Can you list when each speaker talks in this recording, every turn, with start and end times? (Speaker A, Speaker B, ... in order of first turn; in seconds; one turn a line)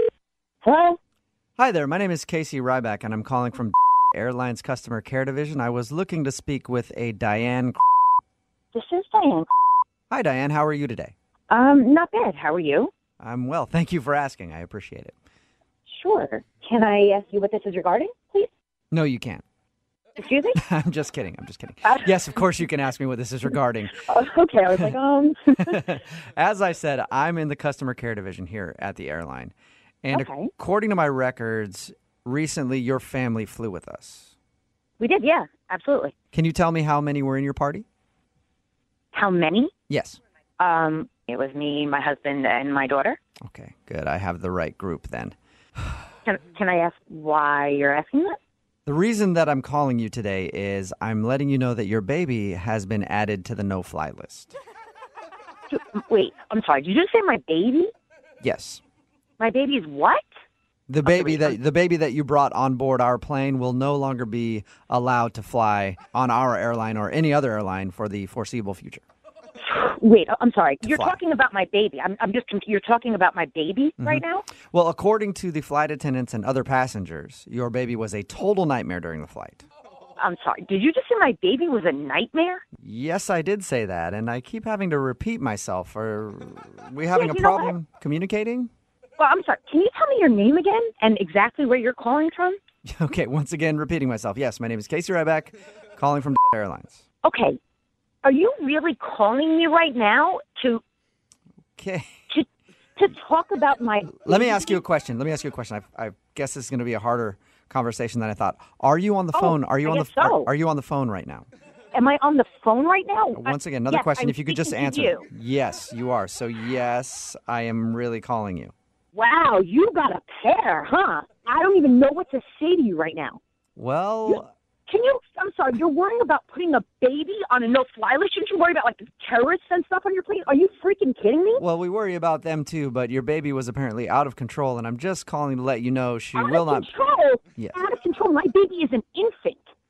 Speaker A: 0.6-1.0
Speaker B: 1.6-7.8
Speaker A: 8.7-9.5
Speaker B: 10.1-11.1
Speaker A: 11.5-12.9
Speaker B: 13.2-15.1
Speaker A: 15.9-18.5
Speaker B: 18.9-19.4
Speaker A: 20.2-20.6
Speaker B: 20.5-24.1
Speaker A: 21.8-22.1
Speaker A: 24.0-25.8
Speaker B: 25.6-34.3
Speaker A: 30.1-30.5
Speaker A: 35.0-36.1
Speaker B: 36.3-37.8
Speaker A: 39.1-39.7
Speaker B: 39.9-40.2
Speaker A: 40.6-43.2
Speaker B: 43.4-45.3
Speaker A: 46.2-48.4
Speaker B: 48.9-54.5
Speaker A: 55.7-57.9
Speaker B: 58.4-58.8
Speaker A: 59.4-60.2
Speaker B: 60.9-69.0
Speaker A: 61.0-61.6
Speaker A: 69.6-74.5
Speaker B: 70.8-71.2
Speaker B: 74.0-79.6
Speaker A: 80.2-82.6
Speaker B: 82.8-88.7
Speaker A: 87.1-87.7
Speaker A: 89.2-92.6
Speaker B: 92.8-97.0
Speaker A: 97.2-97.6
Speaker A: 98.2-100.8
Speaker B: 101.8-102.1
Speaker A: 103.0-104.8
Speaker B: 104.2-111.5
Speaker A: 109.3-110.5
Speaker A: 111.9-115.3
Speaker B: 113.3-118.7
Speaker A: 119.1-123.4
Speaker B: 123.8-124.5
Speaker A: 124.3-131.6
Speaker B: 131.6-136.9
Speaker A: 136.3-139.6